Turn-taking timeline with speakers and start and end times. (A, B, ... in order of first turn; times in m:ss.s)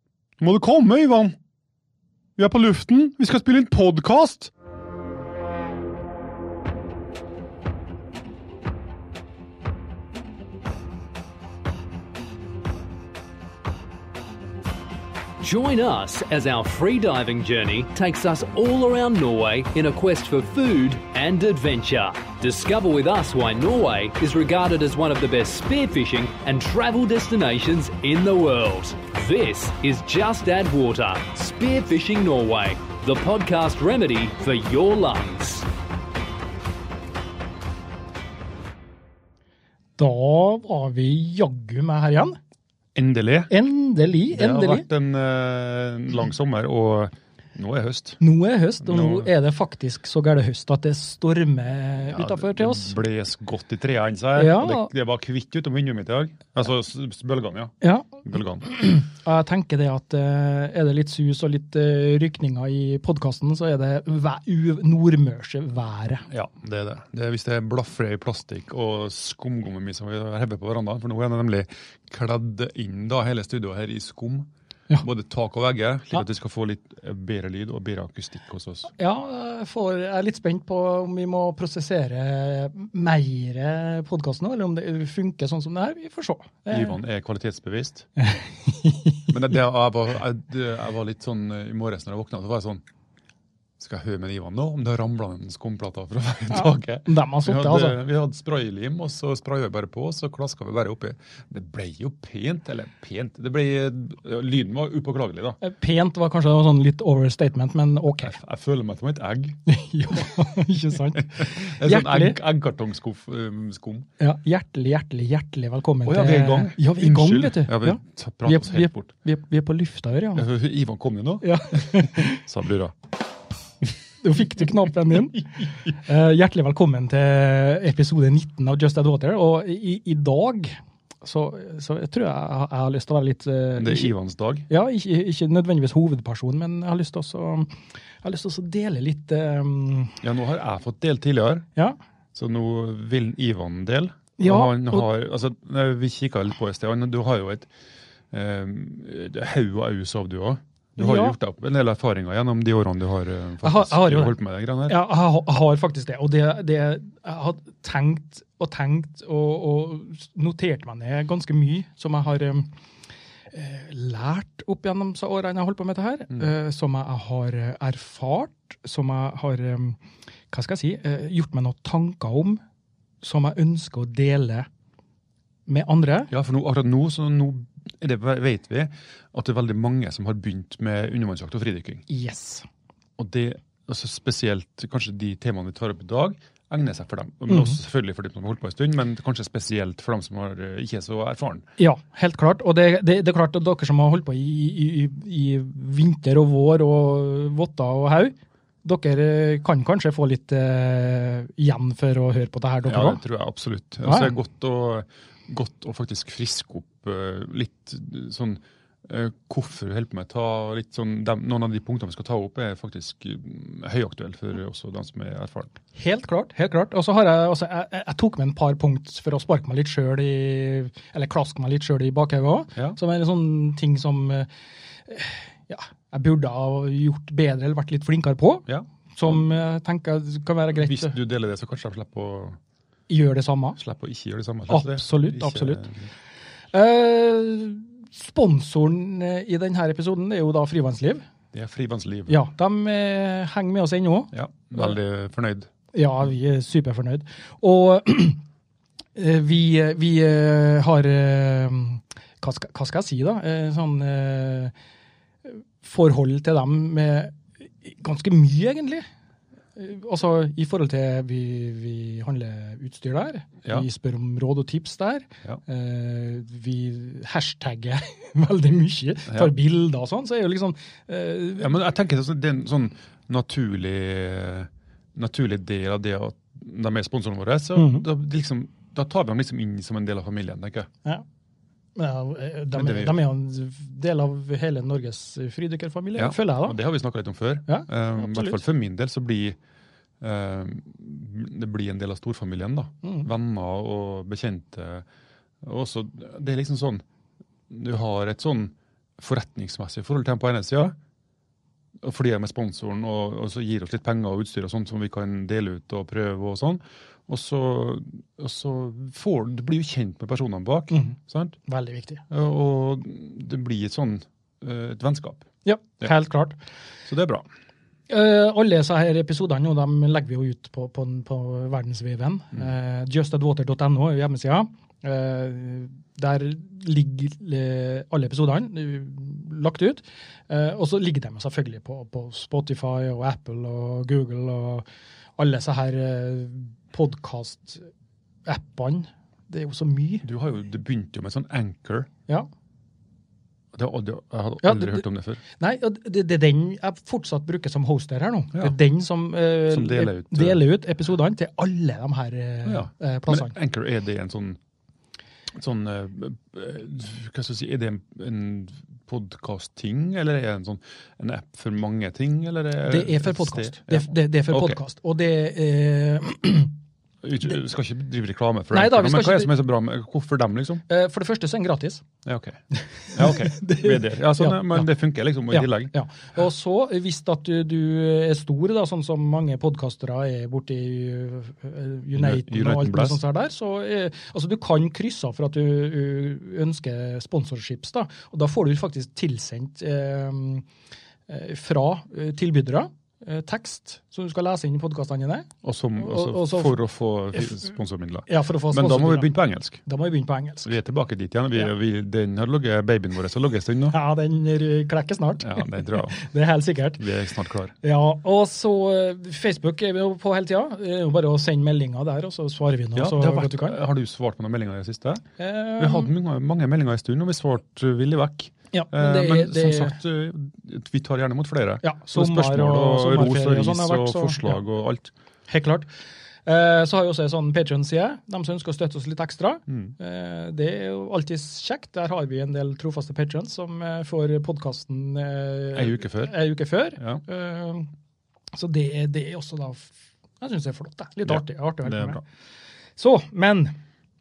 0:00.4-0:01.3 A
0:02.4-0:04.5 A
0:15.4-0:35.7 B
0:40.0-0:42.4 C
0:42.9-0:43.5 A
0:43.5-0:44.8 C
0:44.3-0:48.2 A
0:48.2-0:53.0 C
0:48.8-0:49.3 A
0:52.1-0:57.7 A
0:54.4-0:54.9 C
0:57.8-0:58.1 C
0:58.2-0:58.7 A
0:58.6-1:06.2 C
1:06.3-1:14.5 A
1:15.0-1:18.9 A
1:19.0-1:27.0 C
1:26.7-1:28.1 A
1:28.2-1:29.3 C
1:29.3-1:32.8 A
1:33.8-1:45.6 A
1:36.5-1:38.0 C
1:45.6-1:48.4 C
1:48.2-1:49.6 A
1:49.7-1:52.4 C
1:51.1-1:54.1 A
1:54.2-2:00.5 C
1:56.0-1:59.1 A
2:00.3-2:02.9 A
2:01.4-2:02.4 C
2:04.2-2:14.1 C
2:13.8-2:14.7 A
2:14.7-2:20.2 C
2:20.2-2:21.7 A
2:22.3-2:27.7 A
2:24.4-2:25.0 C
2:28.3-2:35.0 A
2:31.0-2:31.4 C
2:33.6-2:42.7 C
2:43.5-2:50.0 C
2:50.5-2:52.6 C
2:53.2-2:54.7 C
2:55.7-2:56.3 C
2:56.3-3:02.0 A
3:02.1-3:02.6 C
3:03.2-3:11.6 A
3:07.5-3:07.8 C
3:11.8-3:23.2 C
3:22.8-3:35.8 A
3:24.0-3:24.3 C
3:35.9-3:44.5 C
3:45.0-3:51.1 C
3:48.7-3:49.4 A
3:50.8-3:52.6 A
3:53.1-3:53.8 C
3:53.8-3:56.1 A
3:54.7-3:55.9 C
3:56.7-4:01.2 C
4:01.5-4:02.4 A
4:02.3-4:05.0 C
4:04.3-4:05.7 A
4:05.9-4:08.4 C
4:09.2-4:14.7 C
4:15.4-4:19.0 C
4:19.7-4:31.7 C
4:31.6-4:40.9 A
4:37.7-4:38.0 C
4:42.0-4:46.8 C
4:42.7-4:43.2 A
4:46.2-4:49.6 A
4:47.7-4:48.6 C
4:50.2-4:55.0 A
4:53.0-4:53.3 C
4:55.6-4:57.0 A
4:57.7-5:01.0 A
5:02.0-5:11.6 A
5:10.9-5:12.2 C
5:12.3-5:15.4 A
5:15.6-5:16.6 C
5:17.0-5:17.4 A
5:18.1-5:34.8 C
5:35.4-5:37.9 C
5:38.4-5:40.2 C
5:40.2-5:42.1 A
5:43.7-5:45.4 A
5:44.6-5:45.0 C
5:45.5-5:53.5 C
5:49.7-5:50.6 A
5:52.6-5:54.6 A
5:55.5-6:04.8 A
6:02.9-6:06.7 C
6:07.2-6:10.8 A
6:08.7-6:09.5 C
6:10.9-6:12.0 C
6:12.2-6:15.9 A
6:12.9-6:14.9 C
6:15.5-6:30.6 C
6:22.1-6:23.2 A
6:31.3-6:36.8 C
6:35.6-6:39.8 A
6:38.3-6:39.3 C
6:39.8-6:40.7 C
6:40.6-6:44.0 A
6:43.9-6:47.0 C
6:45.4-6:46.2 A
6:47.0-6:47.7 A
6:47.8-6:53.8 C
6:53.0-6:55.2 A
6:55.4-6:56.1 C
6:55.8-7:05.1 A
6:58.7-7:00.0 C
7:01.8-7:04.6 C
7:05.5-7:05.9 C
7:06.4-7:17.9 C
7:09.7-7:09.9 A
7:15.7-7:16.4 A
7:18.5-7:22.2 C
7:21.2-7:22.2 A
7:23.0-7:23.8 C